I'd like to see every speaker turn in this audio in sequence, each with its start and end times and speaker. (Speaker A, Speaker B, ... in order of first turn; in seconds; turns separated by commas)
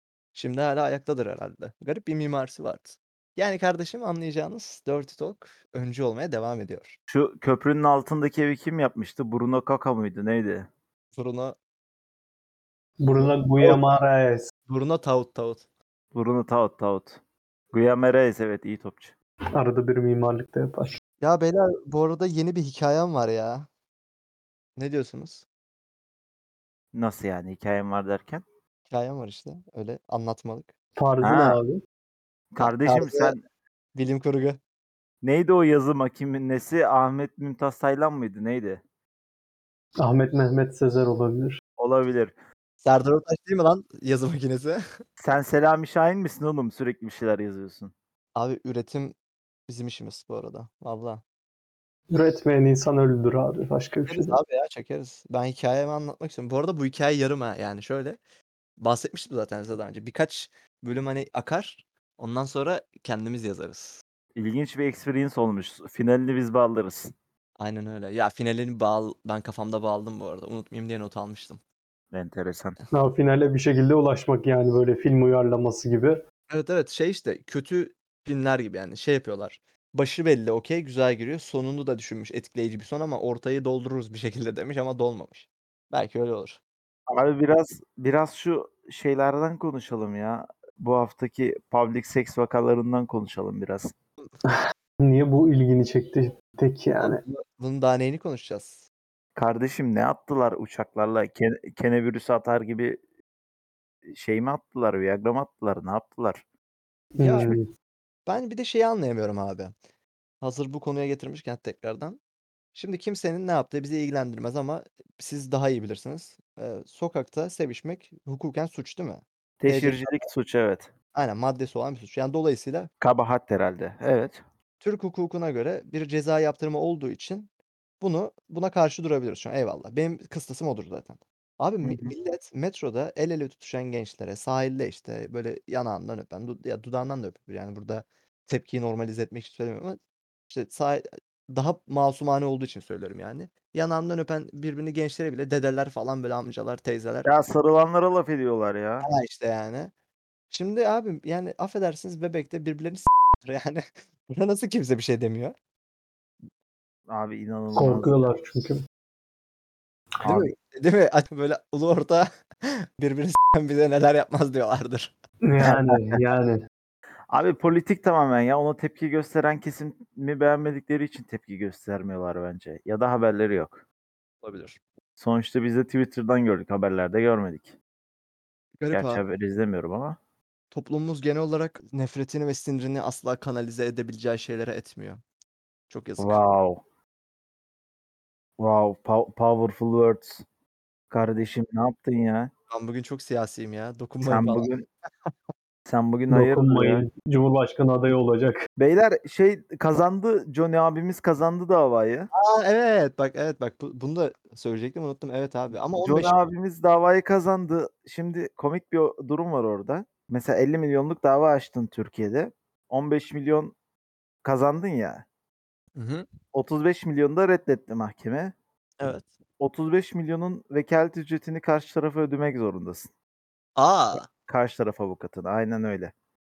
Speaker A: 0.3-7.0, Speaker B: 7.1-10.7, Speaker A: 11.2-11.6, Speaker C: 13.0-14.5, Speaker A: 13.1-13.8, Speaker A: 14.7-15.6, Speaker B: 16.1-17.2, Speaker B: 17.7-19.1, Speaker C: 19.5-20.9, Speaker A: 21.2-23.7, Speaker A: 24.8-25.4, Speaker B: 26.9-28.4, Speaker A: 28.9-30.7, Speaker C: 31.0-31.8, Speaker B: 31.2-31.6, Speaker B: 32.5-33.4, Speaker A: 32.6-33.4, Speaker A: 33.9-34.6, Speaker B: 35.2-38.8, Speaker C: 40.0-41.6, Speaker B: 41.8-42.3, Speaker A: 42.8-44.8, Speaker B: 45.2-47.9, Speaker A: 48.4-49.1, Speaker A: 49.7-51.2, Speaker C: 52.1-54.3, Speaker A: 54.1-58.2, Speaker A: 58.8-64.0, Speaker B: 64.3-67.1, Speaker A: 67.6-71.6, Speaker B: 72.1-72.8, Speaker C: 72.9-76.2, Speaker A: 76.5-86.6, Speaker B: 87.1-93.9, Speaker C: 94.5-97.2, Speaker A: 97.0-98.8, Speaker B: 99.3-103.0, Speaker B: 104.1-106.4, Speaker C: 107.2-107.6, Speaker A: 107.2-107.5, Speaker A: 108.2-109.7, Speaker A: 110.4-112.2, Speaker A: 112.7-120.2, Speaker B: 119.6-120.9, Speaker A: 121.1-122.9, Speaker B: 123.0-124.4, Speaker A: 124.8-127.5, Speaker A: 128.0-147.3, Speaker B: 131.8-132.1, Speaker B: 147.2-149.1, Speaker A: 149.0-149.9, Speaker A: 150.5-155.5, Speaker B: 157.1-158.3, Speaker C: 157.8-158.8, Speaker B: 160.2-160.5, Speaker A: 160.2-165.1, Speaker C: 165.4-166.6, Speaker B: 165.6-166.1, Speaker B: 167.3-173.8, Speaker A: 174.4-174.8, Speaker B: 175.2-177.7, Speaker A: 178.8-179.2, Speaker B: 178.9-180.2, Speaker A: 180.7-185.2, Speaker A: 185.9-186.4, Speaker B: 186.2-186.8, Speaker B: 188.6-190.4, Speaker B: 191.1-192.5, Speaker A: 192.7-194.7, Speaker B: 194.3-194.8, Speaker B: 195.8-197.1, Speaker C: 196.3-198.6, Speaker B: 198.8-202.3, Speaker A: 202.3-206.4, Speaker B: 206.0-213.7, Speaker B: 214.4-215.2, Speaker A: 215.9-216.3, Speaker B: 216.5-218.5, Speaker A: 219.0-219.3, Speaker B: 219.6-223.1, Speaker A: 223.8-224.3, Speaker B: 224.2-226.1